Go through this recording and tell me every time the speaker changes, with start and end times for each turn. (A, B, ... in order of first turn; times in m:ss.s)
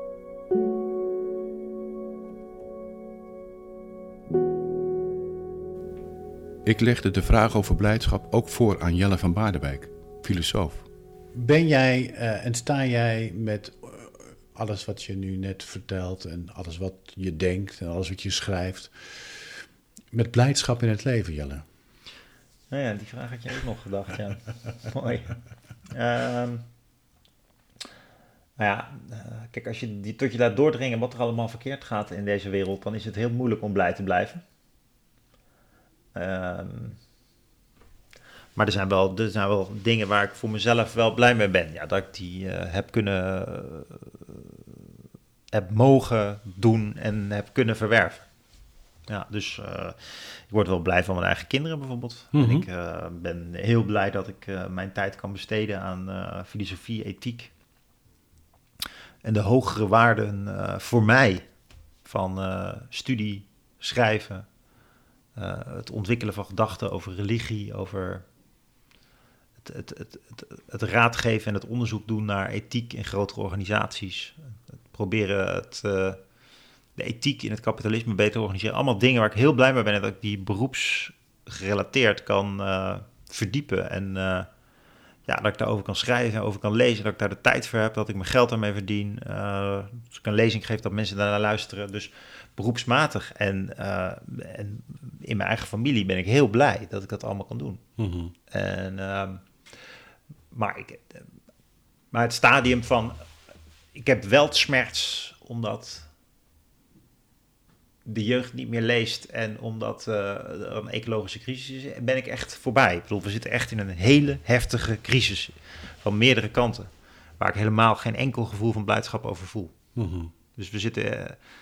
0:06.6-0:19.6 A
0:20.1-0:21.6 A
0:22.7-0:25.4 B
0:25.9-0:26.7 B
0:28.6-0:34.4 B
0:36.1-0:37.0 B
0:38.6-0:44.1 B
0:45.5-0:48.3 B
0:49.1-0:57.5 B
0:52.3-0:52.7 A
0:59.2-1:04.6 B
1:05.4-1:08.3 B
1:09.6-1:16.3 B
1:17.0-1:24.5 B
1:25.2-1:37.9 B
1:38.0-1:38.3 A
1:38.5-1:39.5 B
1:40.5-1:41.2 B
1:42.1-1:43.2 B
1:43.9-1:46.1 B
1:48.0-1:59.8 B
2:00.0-2:00.3 A
2:00.5-2:01.4 B